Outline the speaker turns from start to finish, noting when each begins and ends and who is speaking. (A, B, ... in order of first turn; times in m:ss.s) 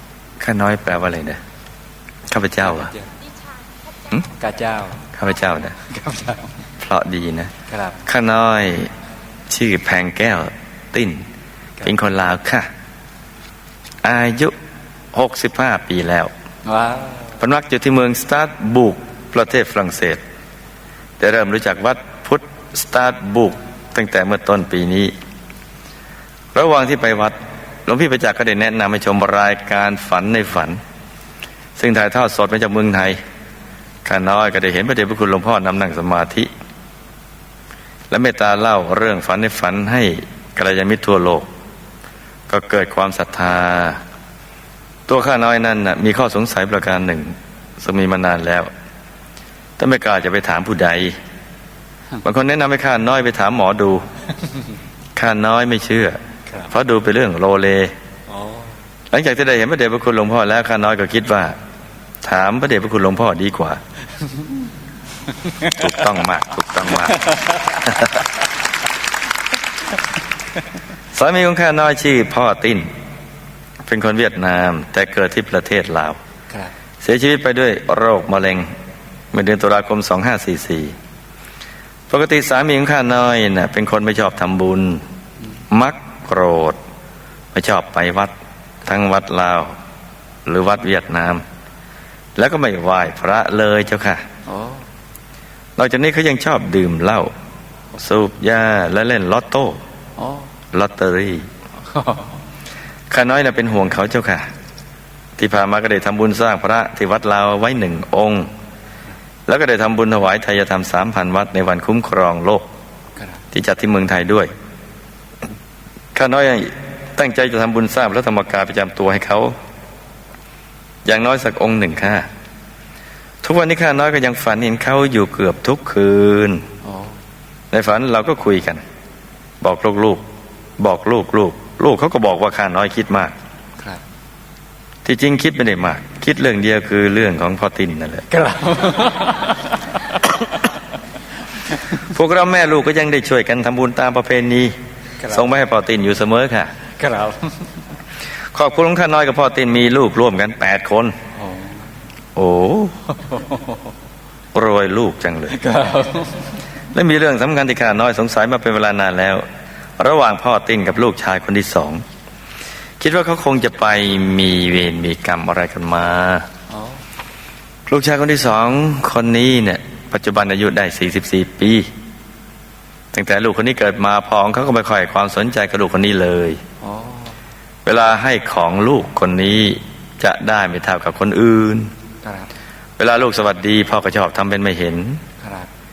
0:00.4-0:01.4 A
0:02.3-0:02.9 A
0:02.7-0:03.1 B
0:04.4-0:05.0 B
0:05.2-0:05.8 A
0:05.8-0:06.5 B
0:06.8-0:07.5 A
0:07.7-0:08.0 B
0:08.0-0:08.9 A
0:09.5-0:11.2 A
0:11.8-0:12.7 A
0:14.0-0:14.5 A
0:15.1-0:16.3 A
0:16.7-0:17.4 B
0:17.4-0:20.2 A
0:21.2-0:25.1 A
0:26.5-0:30.8 A
0:31.8-0:33.2 A
0:34.0-0:36.5 A
0:38.1-0:41.5 A
0:42.5-0:44.0 A
0:45.1-0:48.7 A
0:49.8-0:51.2 A
0:52.2-0:54.1 A
0:55.2-0:58.0 A
0:58.3-0:58.8 B
0:59.1-1:01.6 A
1:02.2-1:03.8 A
1:05.6-1:07.3 A
1:07.2-1:07.7 B
1:07.8-1:08.2 A
1:11.1-1:12.9 A
1:13.9-1:16.2 A
1:17.0-1:18.7 A
1:19.3-1:21.0 A
1:22.1-1:25.0 A
1:25.7-1:26.8 A
1:27.5-1:28.3 A
1:28.8-1:29.7 A
1:30.5-1:31.4 A
1:32.4-1:34.3 A
1:34.5-1:34.8 B
1:35.8-1:37.3 A
1:37.9-1:39.8 A
1:40.2-1:40.5 B
1:40.7-1:41.5 A
1:41.9-1:42.4 B
1:43.1-1:44.5 A
1:45.4-1:48.5 A
1:49.5-1:52.7 A
1:53.5-1:54.5 A
1:56.2-1:59.6 A
2:01.0-2:02.3 A
2:03.4-2:06.7 A
2:06.8-2:07.2 B
2:07.7-2:08.8 A
2:09.6-2:10.2 A
2:10.8-2:13.4 A
2:15.0-2:18.3 A
2:18.3-2:20.7 B
2:21.9-2:24.7 A
2:25.3-2:26.7 A
2:27.0-2:27.8 B
2:28.5-2:31.2 A
2:31.4-2:31.9 B
2:32.4-2:33.0 A
2:33.3-2:33.7 B
2:34.5-2:35.6 A
2:35.5-2:36.6 B
2:36.9-2:39.4 A
2:40.0-2:42.0 A
2:43.0-2:46.5 A
2:46.7-2:47.0 B
2:47.9-2:51.9 A
2:53.1-2:56.6 A
2:56.8-2:57.4 B
2:57.8-3:01.9 A
3:02.2-3:02.5 B
3:03.0-3:05.2 A
3:05.4-3:05.7 B